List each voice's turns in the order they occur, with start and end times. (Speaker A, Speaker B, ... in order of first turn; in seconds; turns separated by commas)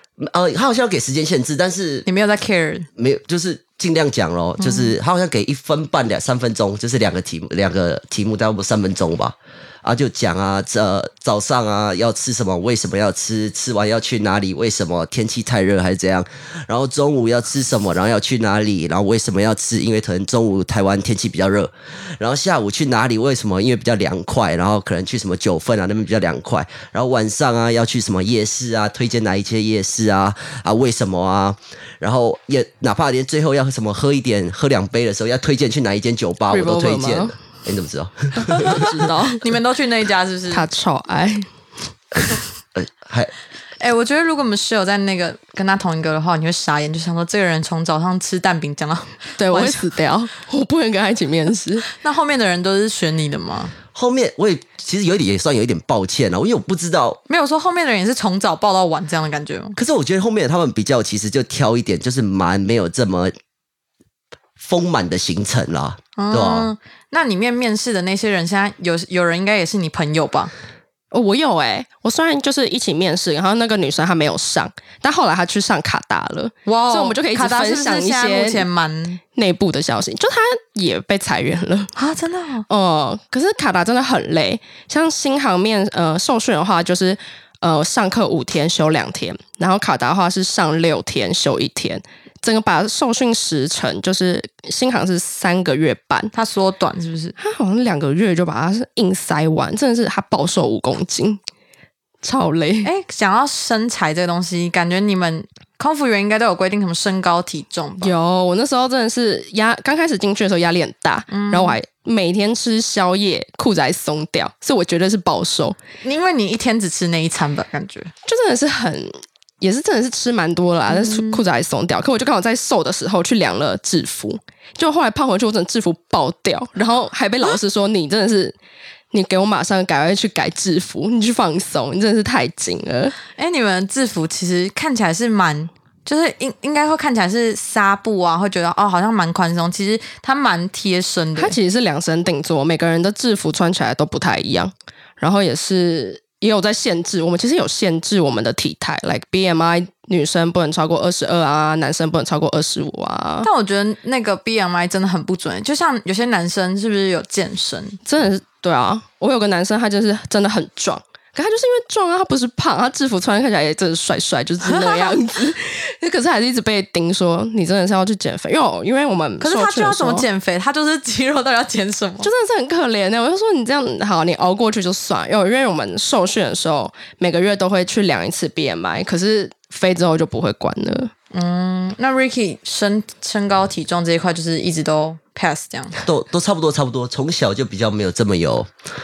Speaker A: 0.2-2.1, Speaker B: 2.1-2.9, Speaker A: 3.0-38.9, Speaker B: 4.6-5.0, Speaker C: 36.5-37.4, Speaker C: 38.4-39.4, Speaker B: 39.4-40.7, Speaker C: 40.5-41.5, Speaker A: 42.8-43.3, Speaker B: 43.8-49.8, Speaker C: 49.4-51.9, Speaker B: 52.0-53.7, Speaker A: 53.9-57.2, Speaker B: 57.3-59.8, Speaker A: 59.8-63.3, Speaker A: 64.6-66.7, Speaker B: 66.2-70.5, Speaker C: 71.1-78.7, Speaker B: 76.7-79.2, Speaker C: 79.3-81.9, Speaker B: 82.0-82.7, Speaker C: 82.7-96.3, Speaker B: 96.3-97.4, Speaker C: 97.4-101.4, Speaker C: 102.2-102.9, Speaker B: 102.8-108.1, Speaker C: 108.0-115.8, Speaker B: 111.3-111.8, Speaker B: 116.0-118.1, Speaker C: 118.3-128.6, Speaker B: 120.9-121.4, Speaker C: 129.1-133.2, Speaker B: 133.4-141.6, Speaker C: 141.4-153.5, Speaker B: 153.4-158.0, Speaker C: 158.1-170.2, Speaker B: 164.6-165.2, Speaker B: 169.4-172.3, Speaker C: 172.2-181.1, Speaker B: 181.3-186.0, Speaker A: 186.1-188.7